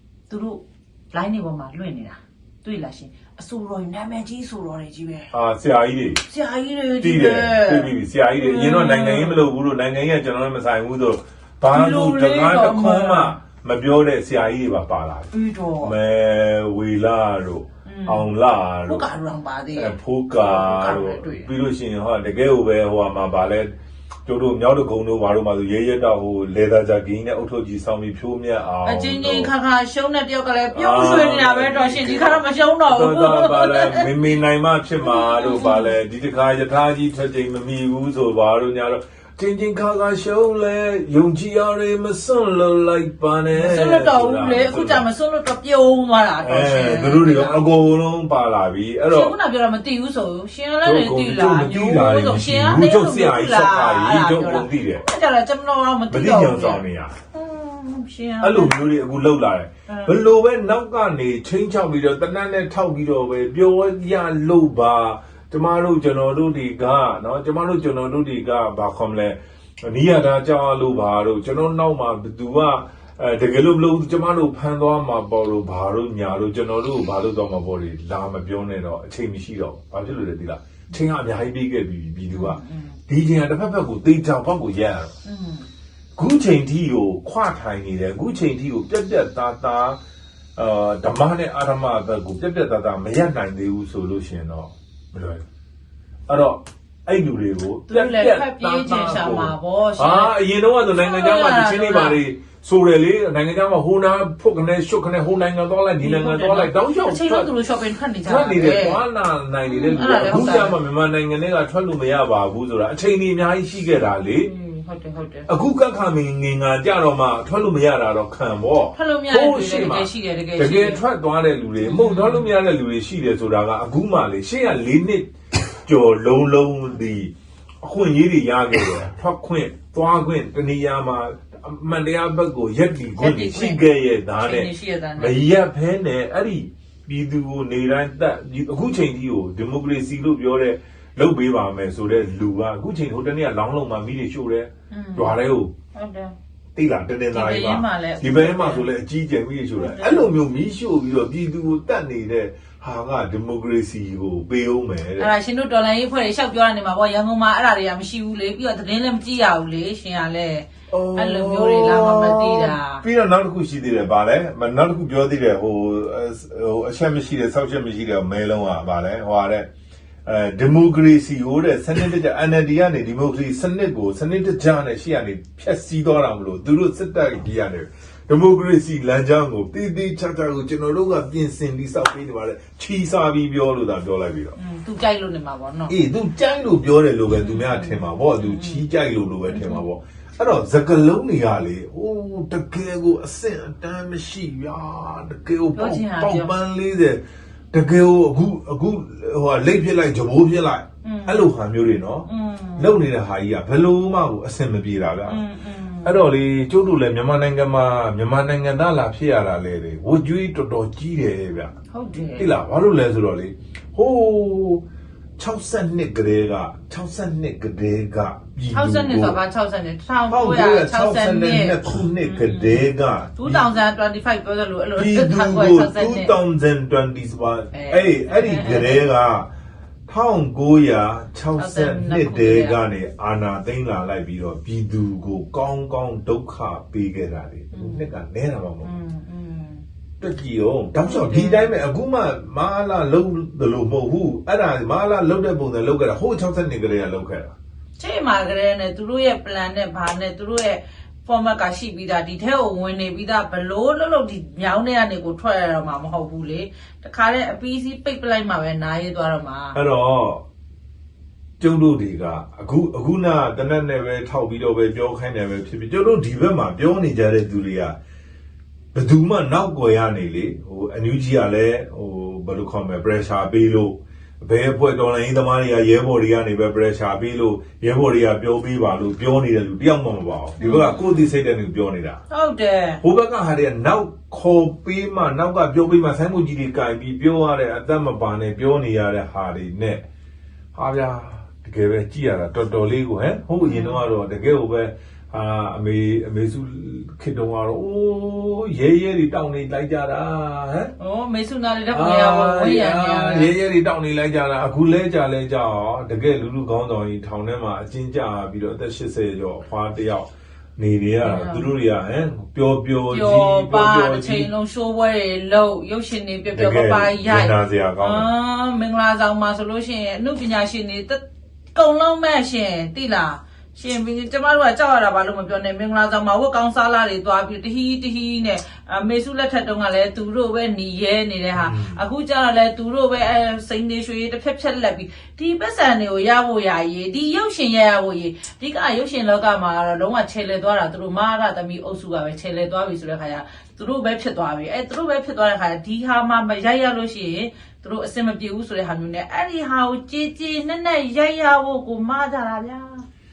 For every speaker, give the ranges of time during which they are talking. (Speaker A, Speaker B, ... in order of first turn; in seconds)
Speaker A: 0.3-5.3, 6.2-9.4, 11.7-13.4, 15.3-15.9, 17.8-18.3, 18.8-21.5, 28.8-34.1, 35.0-35.9, 43.5-47.6, 49.1-56.8, 57.3-58.8, 59.9-60.1, 82.3-83.0, 85.2-85.7, 97.9-100.4, 100.9-102.2, 106.0-109.0, 109.6-110.8, 114.4-115.5, 118.9-121.0, 121.8-122.5, 133.2-135.4, 144.9-145.3, 145.9-146.3, 147.3-148.8, 149.8-150.3, 155.2-163.0, 184.6-185.9, 187.3-188.8, 189.5-189.8, 195.7-196.5, 201.0-201.5, 202.2-203.0, 205.3-206.2, 211.9-212.5, 218.7-222.8, 223.4-226.3, 227.7-229.0, 231.6-232.8, 237.7-238.1, 238.8-239.8, 241.0-241.8, 248.0-259.8, 280.6-281.3, 282.3-283.0, 293.6-294.0, 301.0-303.5, 311.2-311.7, 313.1-321.2, 321.7-353.1
Speaker B: 5.3-6.2, 7.0-15.3, 15.8-19.0, 19.7-29.5, 30.7-45.1, 46.4-49.3, 50.8-55.0, 56.1-57.1, 58.4-85.1, 86.2-90.0, 90.5-95.4, 96.3-107.5, 108.2-114.5, 115.5-145.7, 146.7-155.3, 160.9-169.7, 170.2-184.6, 185.9-205.4, 206.0-211.7, 212.4-214.8, 215.4-219.4, 220.3-223.7, 224.9-229.5, 230.1-238.9, 240.2-247.6, 259.7-260.4, 261.6-267.9, 268.9-282.2, 283.0-290.0, 290.7-300.9, 301.9-314.5, 316.5-318.3, 331.6-332.0